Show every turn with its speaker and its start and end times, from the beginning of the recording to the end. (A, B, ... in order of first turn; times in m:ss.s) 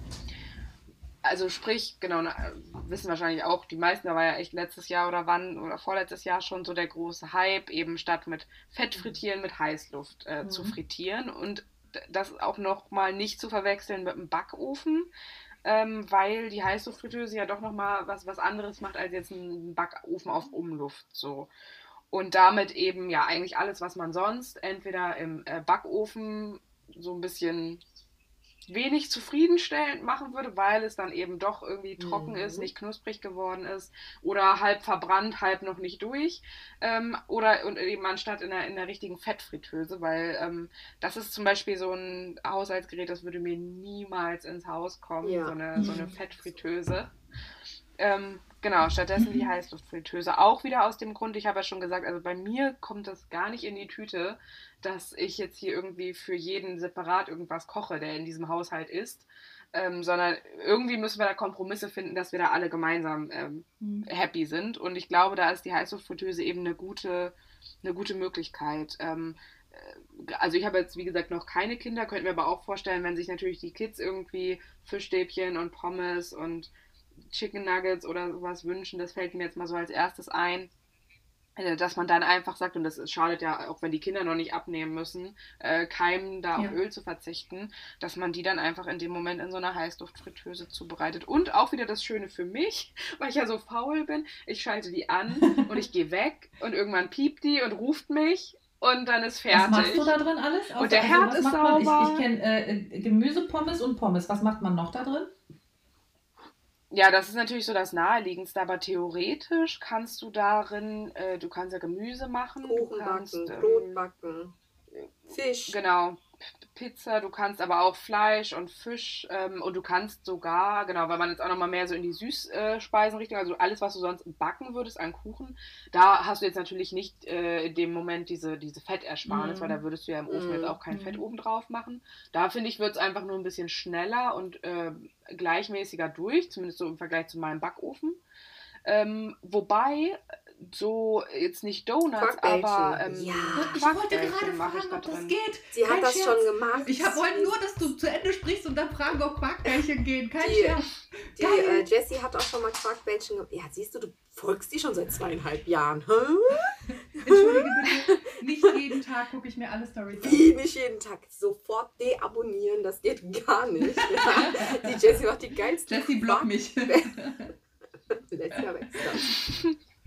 0:01.2-0:15.1 A
0:10.4-0:10.8 B
0:15.6-0:21.5 A
0:22.1-0:27.8 A
0:28.7-0:47.1 A
0:32.0-0:32.7 C
0:45.2-0:46.1 C
0:45.8-0:46.1 B
0:48.0-1:16.7 A
0:49.2-0:49.5 B
1:03.8-1:04.0 B
1:17.3-1:20.7 A
1:21.6-1:40.1 A
1:35.4-1:35.8 B
1:39.5-1:45.3 B
1:40.8-1:42.2 A
1:46.9-1:54.0 A
1:52.6-1:54.5 C
1:55.3-1:55.8 C
1:55.7-1:56.2 A
1:56.7-2:18.2 A
2:09.2-2:09.8 B
2:10.3-2:10.8 C
2:10.9-2:11.2 B
2:18.8-2:25.3 A
2:22.2-2:23.8 C
2:23.5-2:31.9 B
2:25.7-2:27.5 C
2:30.4-2:30.8 C
2:31.4-2:38.7 C
2:36.9-2:40.5 B
2:40.2-2:47.2 C
2:44.0-2:45.0 B
2:45.9-2:47.5 B
2:48.1-2:49.4 C
2:49.4-2:49.8 A